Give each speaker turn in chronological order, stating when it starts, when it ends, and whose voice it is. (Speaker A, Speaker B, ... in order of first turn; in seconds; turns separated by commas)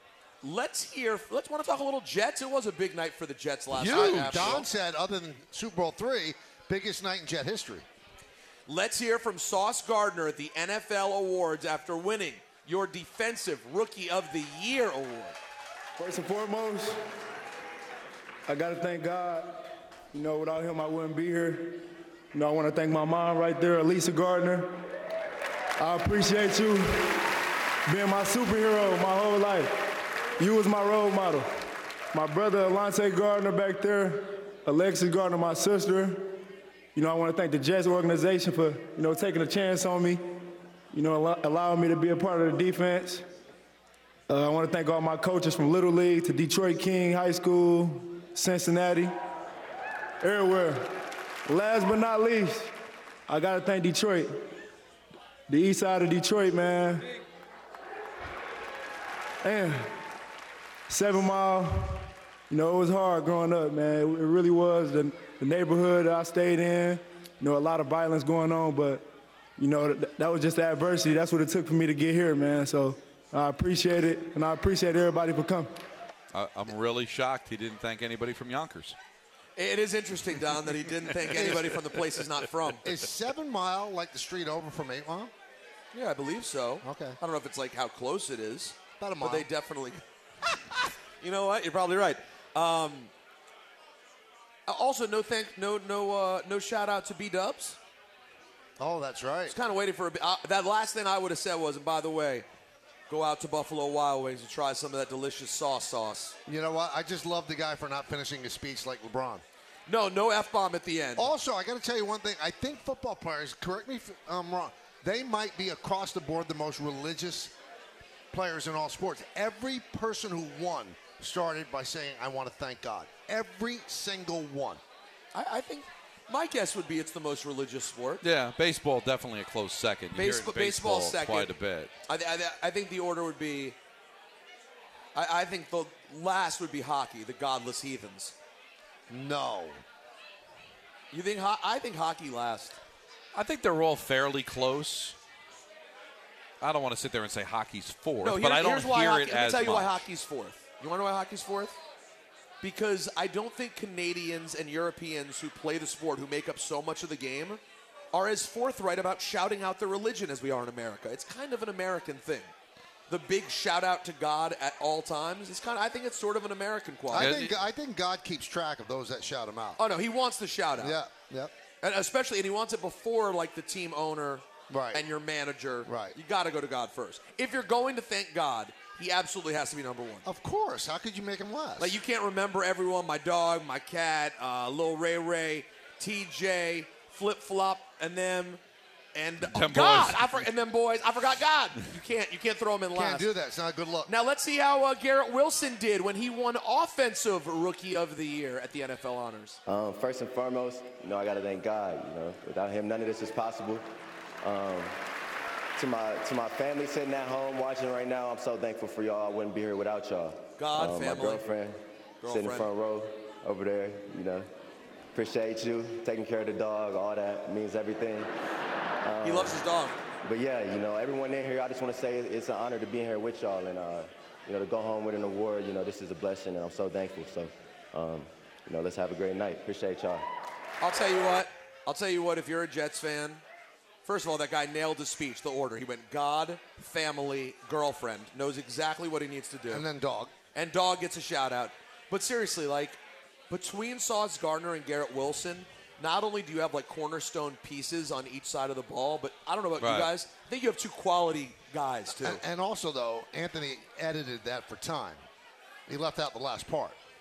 Speaker A: 0.4-4.7, Speaker B: 3.7-4.6, Speaker C: 3.9-7.8, Speaker A: 8.7-15.4, Speaker D: 16.0-17.0, Speaker D: 18.5-24.8, Speaker D: 25.8-27.2, Speaker D: 27.9-29.7, Speaker D: 30.4-31.5, Speaker D: 32.1-36.4, Speaker D: 36.9-40.2, Speaker D: 40.9-43.2, Speaker D: 44.3-49.1, Speaker D: 50.2-52.7, Speaker D: 53.3-54.3, Speaker D: 55.5-57.1, Speaker D: 59.4-59.9, Speaker D: 60.9-69.1, Speaker D: 69.6-75.7, Speaker B: 76.3-79.0, Speaker A: 79.6-82.8, Speaker C: 81.3-81.8, Speaker C: 82.8-85.3, Speaker A: 85.9-90.0, Speaker C: 86.8-87.2, Speaker C: 89.0-89.5, Speaker A: 91.2-93.1, Speaker A: 94.7-97.8, Speaker C: 98.8-99.6, Speaker A: 99.5-102.5, Speaker A: 103.1-106.3, Speaker C: 106.5-109.4, Speaker A: 109.9-111.3, Speaker C: 111.2-117.5, Speaker C: 118.3-124.8, Speaker A: 125.3-128.2, Speaker B: 128.2-131.9, Speaker A: 130.2-131.5, Speaker A: 132.1-133.8, Speaker A: 135.2-138.3, Speaker C: 139.1-139.8, Speaker A: 141.1-142.8, Speaker B: 143.3-145.2, Speaker B: 146.6-150.1, Speaker A: 148.2-151.8, Speaker A: 152.6-162.5, Speaker A: 163.1-167.4, Speaker C: 167.1-169.8, Speaker B: 167.2-167.5, Speaker A: 169.8-171.0, Speaker C: 170.8-171.5, Speaker A: 171.8-180.3, Speaker C: 174.7-175.1, Speaker C: 175.8-176.2, Speaker C: 180.2-182.0, Speaker A: 181.8-188.6, Speaker A: 189.2-193.3, Speaker B: 189.4-190.4, Speaker C: 192.9-194.1, Speaker A: 194.1-199.6, Speaker E: 199.7-203.8, Speaker E: 204.4-205.0, Speaker E: 205.8-214.5, Speaker A: 210.6-211.4, Speaker A: 212.2-212.7, Speaker E: 215.2-218.3, Speaker E: 219.0-219.6, Speaker A: 219.2-220.0, Speaker E: 220.2-230.2, Speaker A: 230.8-233.4, Speaker A: 234.1-239.8, Speaker C: 239.7-240.3, Speaker A: 240.5-252.4, Speaker B: 249.8-250.1, Speaker C: 252.1-255.2, Speaker C: 255.9-257.0